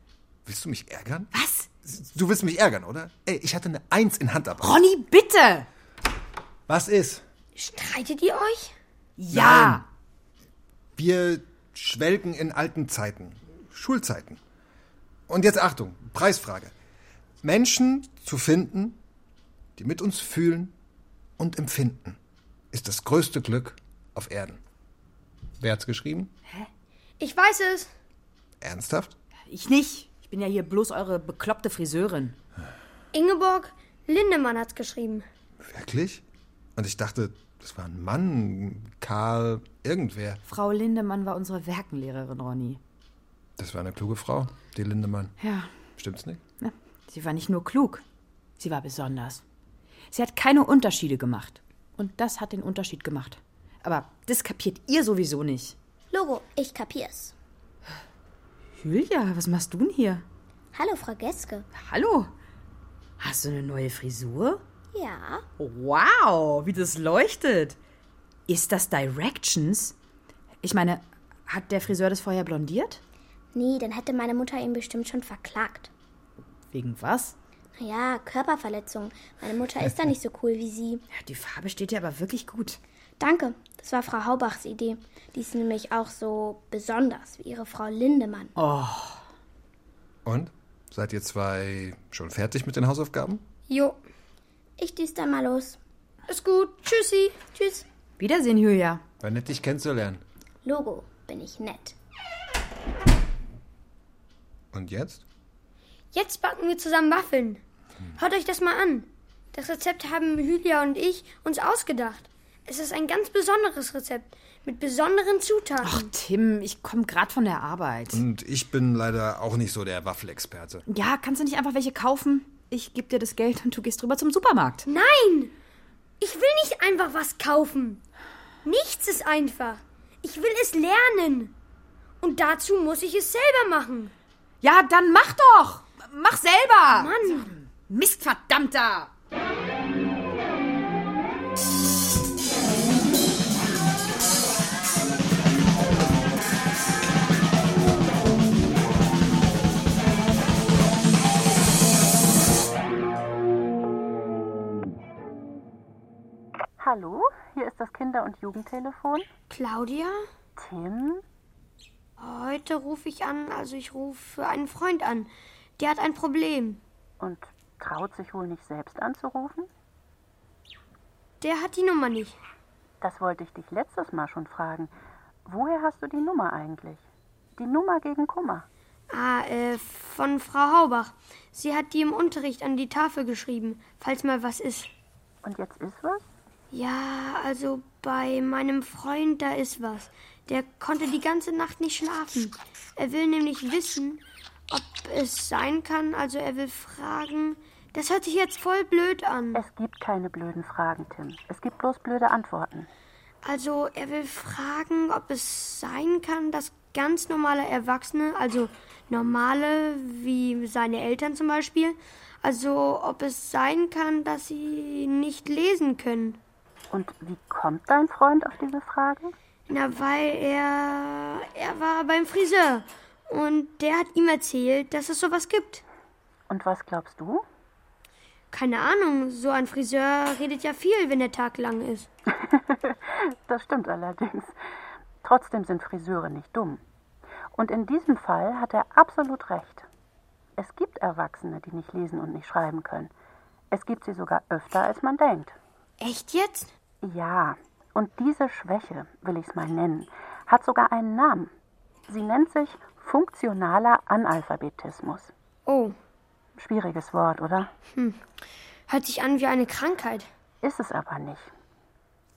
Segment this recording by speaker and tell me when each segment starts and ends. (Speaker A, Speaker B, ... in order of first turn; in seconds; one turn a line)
Speaker A: 0.4-1.3
Speaker B: 1.3-1.7
Speaker A: 1.8-4.8
Speaker B: 4.6-5.7
Speaker A: 6.7-7.2
Speaker C: 7.5-8.7
Speaker B: 9.2-9.8
Speaker A: 9.3-9.8
Speaker A: 11.0-14.4
Speaker A: 15.3-16.7
Speaker A: 17.4-19.0
Speaker A: 19.8-20.7
Speaker A: 21.4-22.2
Speaker A: 22.7-24.6
Speaker A: 25.6-26.3
Speaker C: 27.2-27.9
Speaker A: 28.6-29.1
Speaker B: 29.5-32.3
Speaker C: 33.1-35.2
Speaker A: 35.6-36.2
Speaker A: 36.8-40.4
Speaker B: 40.5-42.8
Speaker A: 43.6-45.3
Speaker B: 45.4-45.7
Speaker A: 46.0-46.4
Speaker B: 46.6-48.0
Speaker B: 48.6-49.4
Speaker B: 50.1-55.7
Speaker D: 56.1-57.3
Speaker B: 58.8-60.2
Speaker D: 60.7-61.7
Speaker B: 61.8-62.3
Speaker B: 63.2-64.6
Speaker D: 64.9-65.4
Speaker B: 65.6-67.8
Speaker B: 68.5-69.9
Speaker B: 70.6-73.0
Speaker D: 73.5-75.9
Speaker B: 76.7-77.3
Speaker D: 77.8-81.0
Speaker B: 81.1-82.8
Speaker D: 83.2-88.5
Speaker B: 88.6-89.2
Speaker A: 90.2-93.4
Speaker C: 93.7-94.0
Speaker D: 94.8-95.8
Speaker C: 96.3-97.4
Speaker D: 97.5-97.8
Speaker B: 98.2-99.0
Speaker A: 99.2-100.2
Speaker D: 100.6-101.9
Speaker A: 104.7-105.2
Speaker C: 106.1-107.6
Speaker C: 108.2-116.1
Speaker B: 115.8-118.2
Speaker A: 118.1-120.8
Speaker B: 120.9-124.8
Speaker C: 124.8-125.5
Speaker C: 126.2-128.0
Speaker C: 128.6-131.5
Speaker C: 132.2-134.1
Speaker B: 134.6-139.1
Speaker C: 136.9-137.5
Speaker E: 156.8-159.3
Speaker C: 159.5-160.2
Speaker E: 160.6-161.2
Speaker C: 162.2-166.8
Speaker E: 167.2-169.7
Speaker C: 171.4-172.3
Speaker E: 173.0-174.9
Speaker E: 175.4-177.0
Speaker E: 177.6-178.7
Speaker C: 179.1-184.9
Speaker E: 185.4-186.3
Speaker C: 186.7-199.6
Speaker E: 199.5-202.9
Speaker C: 203.4-216.4
Speaker E: 216.9-219.3
Speaker C: 219.7-225.8
Speaker E: 226.5-227.4
Speaker C: 228.5-232.1
Speaker E: 232.3-234.6
Speaker E: 235.2-236.8
Speaker E: 237.5-239.9
Speaker E: 240.6-243.1
Speaker E: 243.7-245.6
Speaker C: 246.0-246.7
Speaker E: 247.0-251.5
Speaker E: 252.1-255.3
Speaker C: 255.7-255.9
Speaker E: 256.6-257.7
Speaker C: 258.9-260.3
Speaker E: 260.6-261.5